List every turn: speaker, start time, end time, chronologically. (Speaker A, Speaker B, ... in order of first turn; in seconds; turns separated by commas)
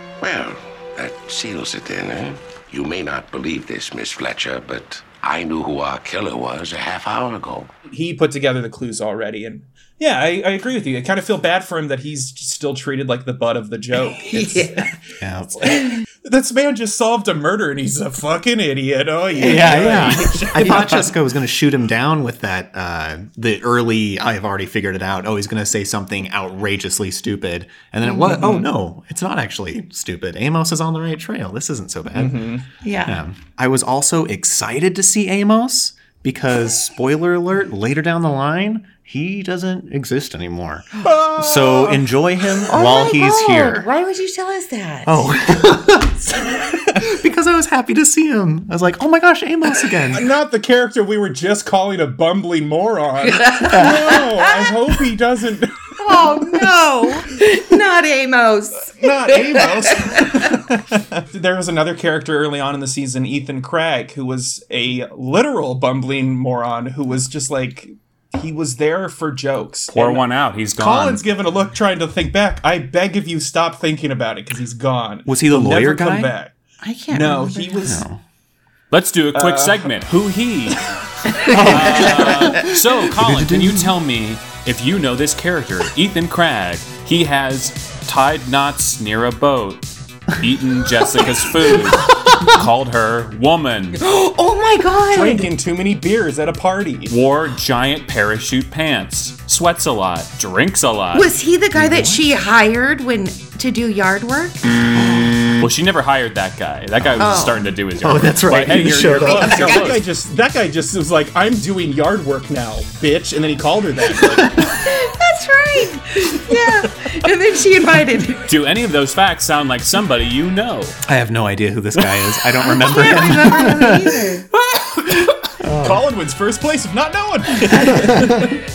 Speaker A: 0.2-7.7, Speaker B: 7.9-14.7, Speaker C: 14.3-14.9, Speaker D: 15.2-15.6, Speaker B: 15.6-21.1, Speaker D: 19.4-32.5, Speaker C: 19.4-19.8, Speaker C: 28.1-28.4, Speaker B: 28.3-28.7, Speaker B: 32.1-32.6, Speaker C: 32.8-33.2, Speaker D: 33.1-43.9, Speaker B: 41.0-42.1, Speaker C: 42.7-45.3, Speaker D: 45.0-50.3, Speaker B: 50.1-56.4, Speaker C: 53.4-54.7, Speaker C: 56.0-60.5, Speaker B: 59.0-70.2, Speaker E: 69.9-71.2, Speaker B: 70.8-76.5, Speaker D: 75.3-76.3, Speaker C: 76.8-77.9, Speaker B: 77.1-78.0, Speaker D: 77.8-78.2, Speaker E: 78.9-80.8, Speaker B: 79.3-79.9, Speaker D: 81.5-83.9, Speaker E: 81.5-94.0, Speaker B: 81.7-82.1, Speaker D: 91.9-92.5, Speaker C: 94.0-95.5, Speaker B: 95.1-97.2, Speaker E: 97.1-101.3, Speaker C: 101.2-104.6, Speaker D: 101.8-102.2, Speaker D: 104.8-105.6, Speaker E: 105.6-110.0, Speaker D: 107.2-109.9, Speaker C: 107.2-107.5, Speaker B: 109.0-114.8, Speaker C: 114.7-118.4, Speaker E: 118.5-121.0, Speaker D: 121.1-124.2, Speaker C: 122.7-124.5, Speaker B: 124.5-128.5, Speaker D: 125.6-126.0